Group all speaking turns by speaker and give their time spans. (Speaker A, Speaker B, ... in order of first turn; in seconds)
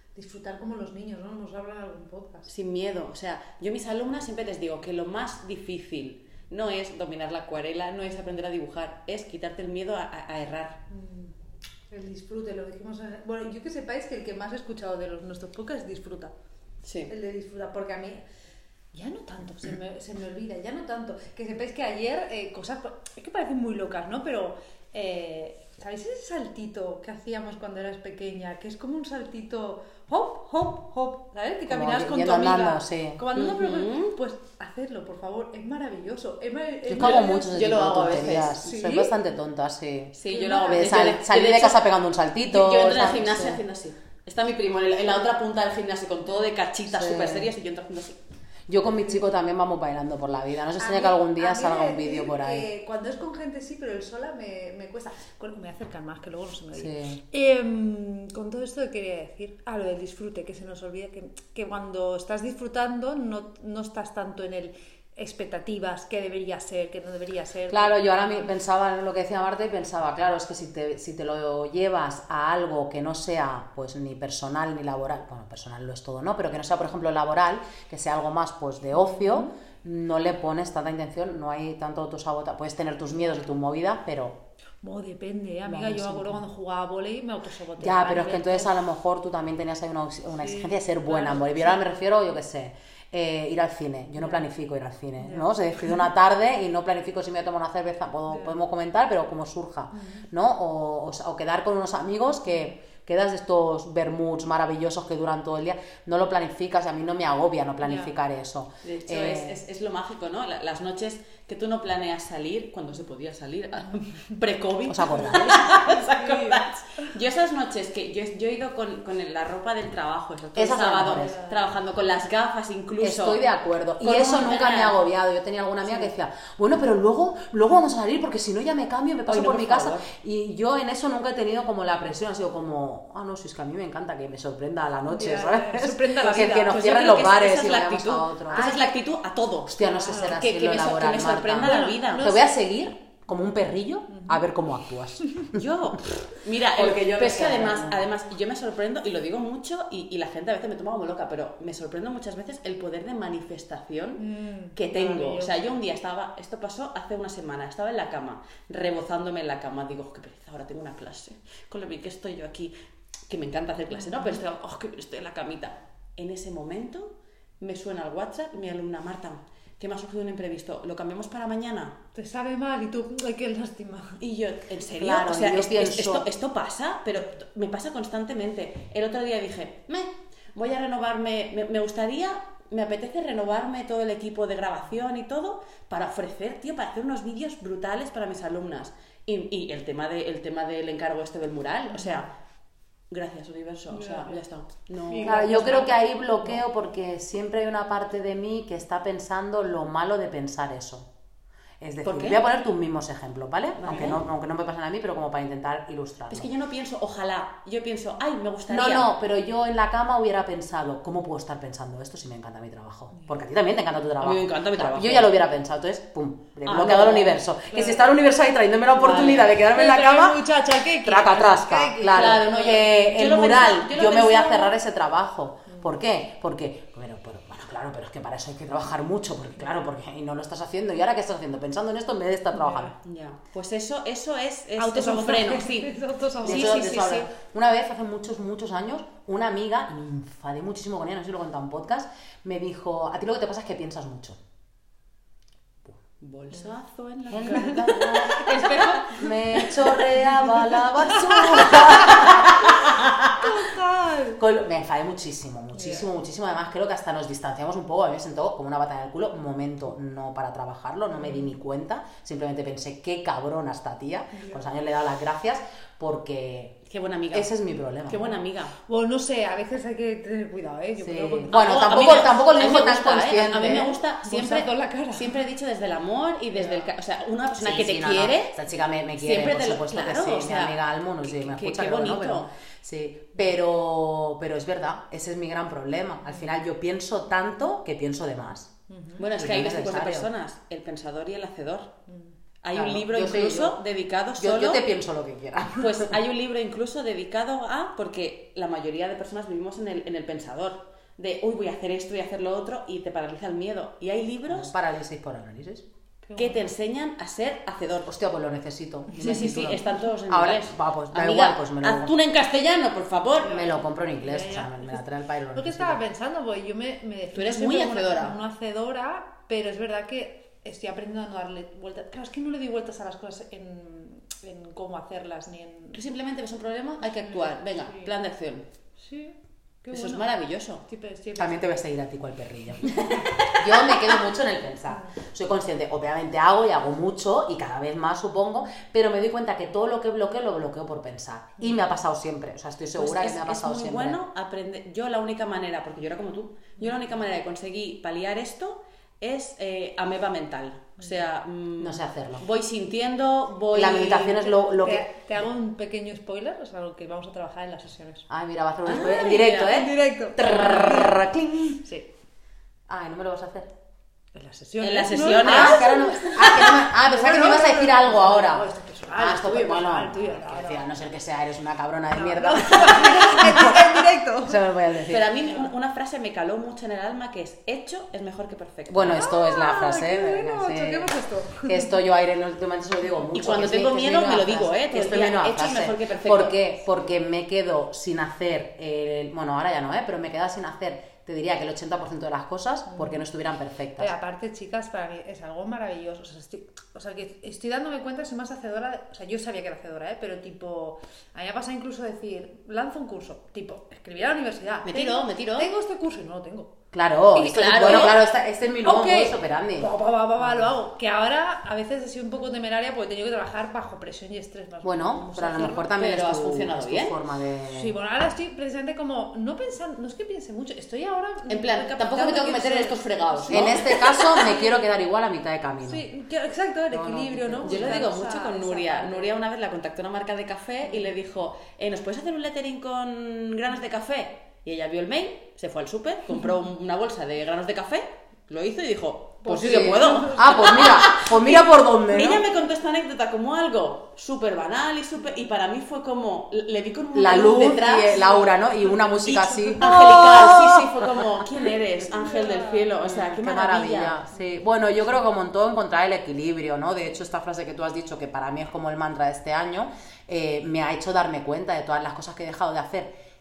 Speaker A: 0.1-2.5, 10.9-11.3, 11.9-16.3, 17.1-18.2, 18.9-37.6, 38.5-39.2, 40.3-41.0, 50.8-68.3, 78.9-79.5, 84.8-88.7, 90.3-91.8, 94.2-94.5, 95.2-96.0, 98.3-98.6, 99.9-100.2, 107.8-108.1, 115.4-116.6, 121.1-121.6, 135.1-136.9, 138.5-139.0, 139.8-140.4, 141.6-142.5, 144.1-144.4, 154.2-155.8, 172.1-174.2, 191.9-192.2, 193.9-194.4, 195.0-196.6, 213.1-213.4, 217.7-218.1, 219.6-222.8, 232.6-232.8, 234.8-236.8, 247.4-254.4, 255.7-256.1, 261.1-261.5, 264.3-264.6, 268.9-272.4, 273.6-275.4, 276.6-276.9, 286.3-286.5, 288.9-289.3, 292.1-292.3, 306.2-306.7, 313.4-326.0, 327.0-328.1, 329.0-330.3, 330.8-331.8, 332.8-334.2, 351.0-351.3, 354.6-358.2, 359.0-361.2, 364.3-370.9, 372.1-374.6, 375.4-375.7, 379.0-381.9, 392.9-393.2, 394.0-406.7, 407.3-408.1, 408.8-415.9, 417.7-424.8, 425.8-429.3, 430.8-431.1, 439.4-440.9, 447.9-449.0, 449.6-449.8, 452.1-452.9, 454.3-454.7
Speaker B: 2.5-10.8, 16.8-17.1, 33.3-34.1, 36.9-38.6, 40.1-41.8, 42.5-48.2, 108.8-123.4, 124.0-125.0, 129.3-130.1, 136.2-139.7, 140.3-142.3, 145.5-154.2, 154.7-162.7, 163.3-172.0, 174.2-192.3, 193.1-195.4, 202.0-202.4, 203.8-204.2, 206.3-209.1, 214.2-215.3, 216.6-217.4, 218.9-219.6, 222.1-224.7, 233.0-237.3, 246.2-249.2, 266.9-267.5, 268.1-268.7, 271.5-278.6, 279.2-282.5, 289.2-291.9, 292.6-294.9, 295.8-304.7, 306.4-308.1, 309.1-313.6, 317.3-318.4, 325.9-328.6, 329.9-330.8, 342.9-354.6, 358.8-359.7, 364.8-366.0, 375.1-379.2, 383.3-386.6, 404.9-405.7, 407.4-408.2, 415.9-417.1, 421.5-424.2, 427.6-448.5, 449.2-454.2
Speaker C: 31.6-33.2, 36.9-43.6, 46.9-47.5, 48.7-52.7, 56.7-57.2, 67.7-84.4, 85.6-86.4, 87.8-109.6, 114.9-115.8, 120.5-121.3, 123.0-138.7, 139.7-145.6, 146.7-148.1, 175.0-176.2, 195.2-201.1, 201.8-206.5, 208.7-220.4, 221.0-232.9, 236.4-244.4, 247.3-248.6, 249.1-253.5, 254.4-266.8, 267.3-268.2, 271.0-274.0, 277.6-288.7, 289.3-290.3, 292.7-293.8, 294.4-296.1, 304.5-305.8, 308.1-312.1, 313.4-316.0, 331.3-344.2, 351.8-352.4, 353.7-355.1, 358.3-361.8, 362.9-363.7, 365.2-375.3, 378.9-381.1, 381.6-394.1, 406.9-410.7, 414.8-417.9, 423.5-426.1, 426.9-428.1, 439.4-442.4, 447.1-451.3, 453.0-463.1